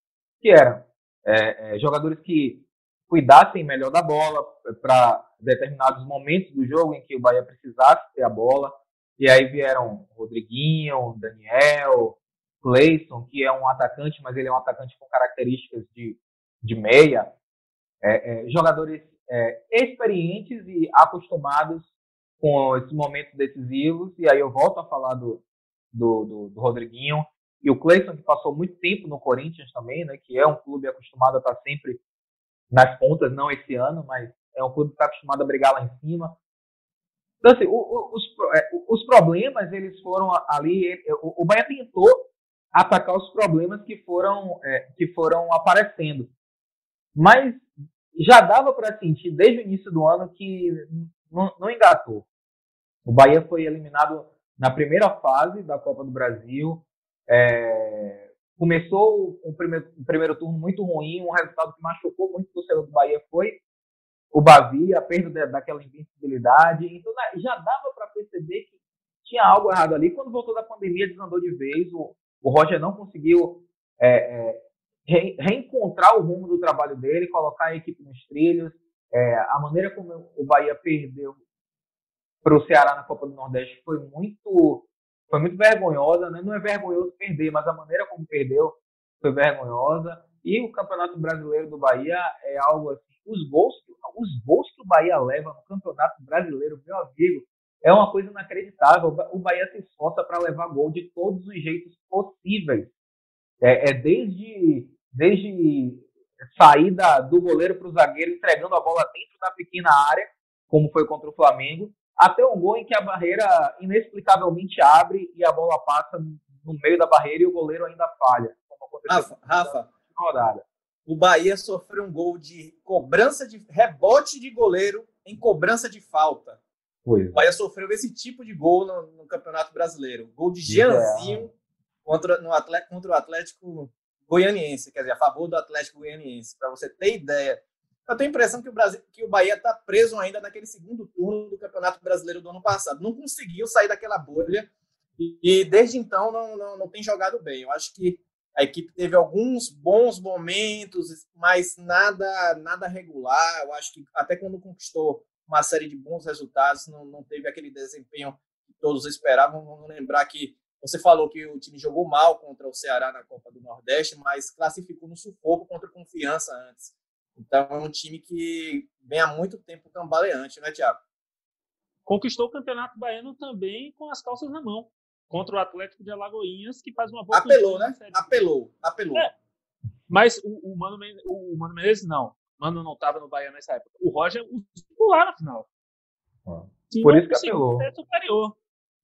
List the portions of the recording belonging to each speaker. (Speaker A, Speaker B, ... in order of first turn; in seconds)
Speaker A: 0.4-17.3, 18.0-21.9, 22.4-32.0, 32.7-36.4, 37.4-46.3, 47.2-52.3, 53.0-63.6, 64.3-68.7, 69.2-81.4, 82.4-102.9, 103.6-120.7, 127.1-127.5, 130.7-131.5, 186.5-187.9
Speaker B: 119.1-119.9, 121.1-126.6, 127.3-131.5, 132.1-171.0, 177.3-179.3
Speaker C: 172.1-178.4, 180.1-185.7, 186.9-188.6